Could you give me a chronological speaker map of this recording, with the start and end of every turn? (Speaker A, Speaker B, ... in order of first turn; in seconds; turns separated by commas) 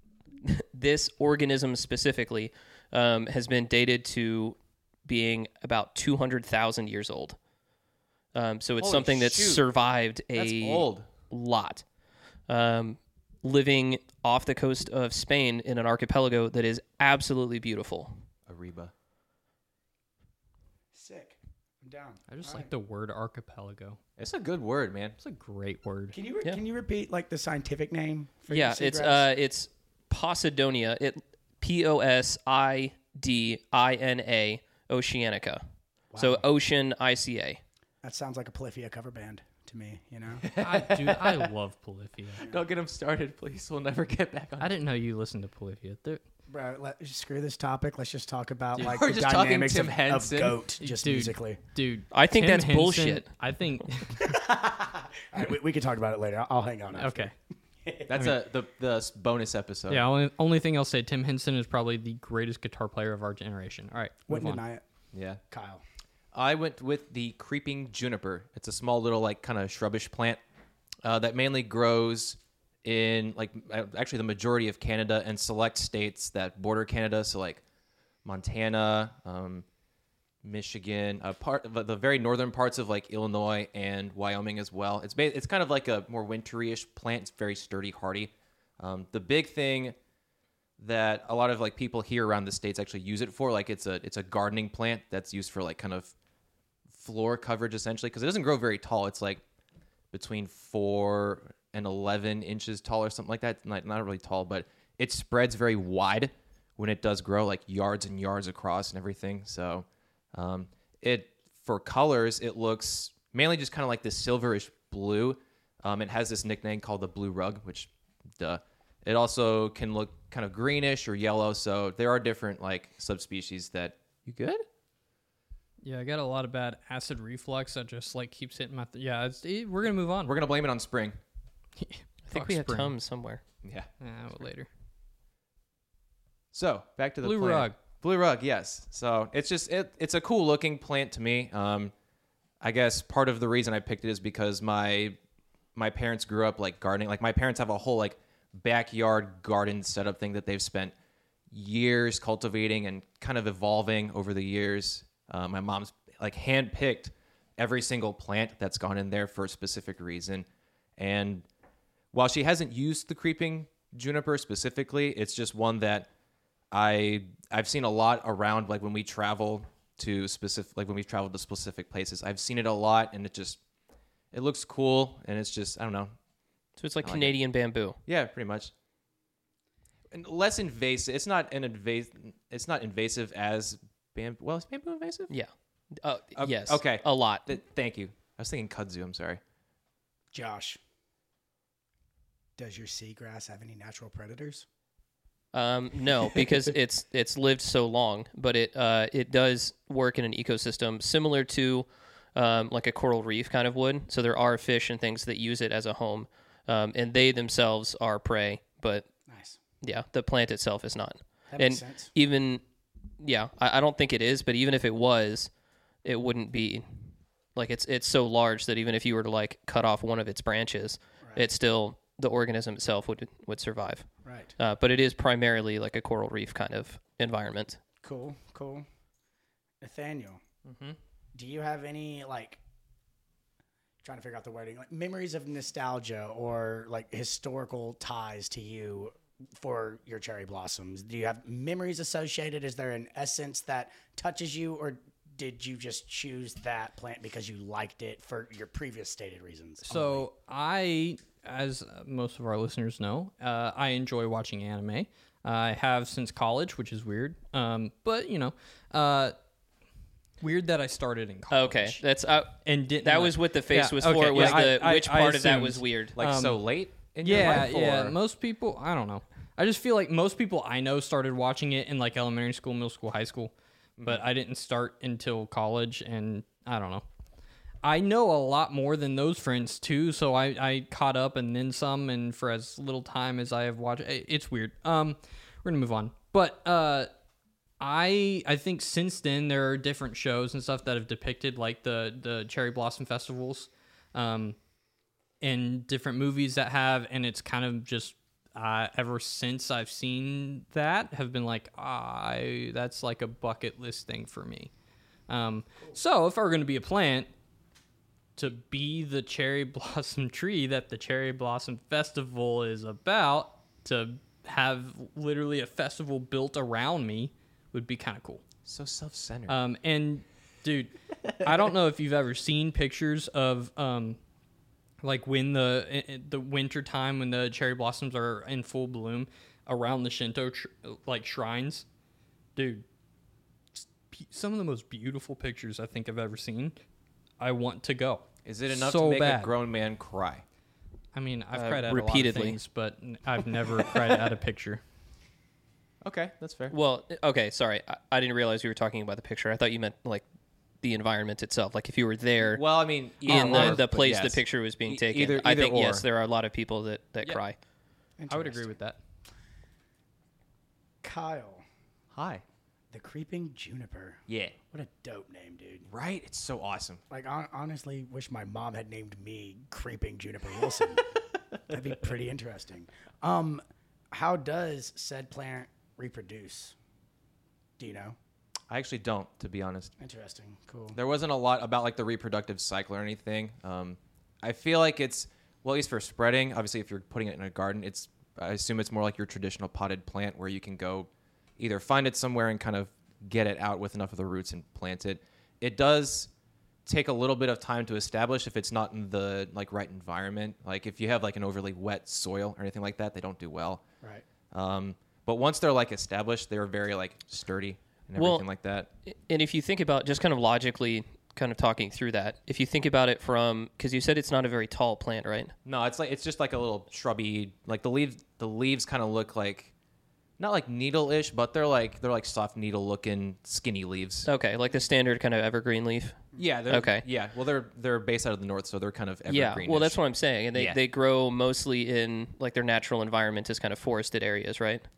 Speaker A: 0.4-7.4, Speaker A: 8.3-11.8, Speaker B: 8.8-9.6, Speaker B: 10.3-11.1, Speaker A: 12.5-18.1, Speaker B: 18.5-18.9, Speaker C: 20.9-22.7, Speaker D: 22.3-24.0, Speaker B: 24.2-25.2, Speaker D: 25.2-26.1, Speaker C: 26.1-29.3, Speaker A: 28.5-35.6, Speaker C: 36.1-36.4, Speaker A: 36.1-37.6, Speaker C: 38.0-40.5, Speaker B: 40.4-41.5, Speaker D: 40.6-42.5, Speaker B: 42.4-44.7, Speaker D: 44.6-46.2, Speaker C: 46.5-51.6, Speaker B: 48.8-50.6, Speaker D: 50.8-54.4, Speaker A: 52.1-53.3, Speaker C: 54.2-57.3, Speaker D: 56.9-57.3, Speaker C: 57.8-58.1, Speaker B: 58.1-60.0, Speaker D: 59.9-64.6, Speaker C: 64.3-64.8, Speaker B: 65.1-65.4, Speaker C: 65.5-65.8, Speaker B: 66.3-70.4, Speaker B: 71.0-77.6, Speaker B: 78.2-79.6, Speaker B: 80.4-90.0, Speaker B: 90.8-96.1, Speaker B: 96.9-99.4, Speaker B: 100.1-124.6, Speaker D: 125.8-130.3, Speaker B: 130.2-131.2, Speaker D: 131.8-132.9, Speaker A: 132.2-133.4, Speaker B: 133.6-133.9, Speaker D: 134.0-134.7, Speaker B: 136.5-141.9, Speaker D: 137.2-137.8, Speaker B: 142.6-145.2, Speaker B: 145.7-150.9, Speaker B: 151.5-160.4, Speaker B: 161.0-161.4, Speaker B: 162.1-166.1, Speaker B: 166.7-173.6, Speaker B: 174.3-176.1, Speaker A: 176.8-178.0, Speaker B: 177.0-177.3, Speaker B: 178.1-178.7, Speaker B: 180.1-185.3, Speaker A: 185.3-187.5, Speaker B: 186.3-189.4, Speaker C: 190.3-190.8, Speaker C: 192.6-194.6, Speaker A: 195.5-209.1, Speaker C: 209.3-209.6, Speaker A: 209.8-212.6, Speaker C: 211.5-212.1, Speaker A: 213.2-215.5, Speaker A: 216.0-227.8, Speaker C: 224.2-224.5, Speaker C: 228.0-228.8, Speaker C: 229.8-230.4, Speaker A: 230.7-230.9, Speaker C: 231.3-232.6, Speaker C: 234.0-250.2, Speaker D: 249.8-259.3, Speaker D: 260.4-262.0, Speaker A: 261.5-266.2, Speaker D: 262.6-266.6, Speaker B: 264.3-264.6, Speaker B: 266.1-268.1, Speaker D: 267.2-277.0, Speaker B: 274.0-274.2, Speaker D: 277.8-287.1, Speaker D: 287.8-294.6, Speaker D: 295.4-304.7, Speaker D: 305.3-307.3, Speaker D: 308.4-318.4, Speaker B: 318.6-319.6, Speaker D: 319.5-324.2, Speaker D: 325.0-331.9, Speaker D: 332.6-332.8, Speaker D: 333.7-336.8, Speaker D: 337.4-339.5, Speaker B: 338.4-340.4, Speaker D: 341.1-344.8, Speaker A: 341.5-342.6, Speaker B: 346.0-346.8, Speaker A: 346.7-350.2, Speaker A: 350.8-352.6, Speaker B: 352.4-356.0, Speaker A: 353.2-357.6, Speaker D: 353.3-353.8, Speaker C: 358.2-358.7, Speaker D: 358.3-359.0, Speaker C: 361.0-361.6, Speaker B: 362.1-362.4, Speaker C: 362.9-365.9, Speaker B: 364.3-364.6, Speaker B: 365.9-367.0, Speaker C: 367.1-371.1, Speaker C: 371.7-376.7, Speaker C: 377.8-378.2, Speaker B: 378.7-379.9, Speaker C: 380.0-381.0, Speaker B: 380.9-396.3, Speaker B: 396.9-403.8, Speaker B: 404.5-408.9, Speaker A: 408.1-408.4, Speaker A: 409.1-415.5, Speaker B: 415.6-419.7, Speaker B: 420.4-424.3, Speaker A: 424.2-427.0, Speaker B: 426.4-430.0, Speaker A: 429.3-434.9, Speaker B: 430.5-430.8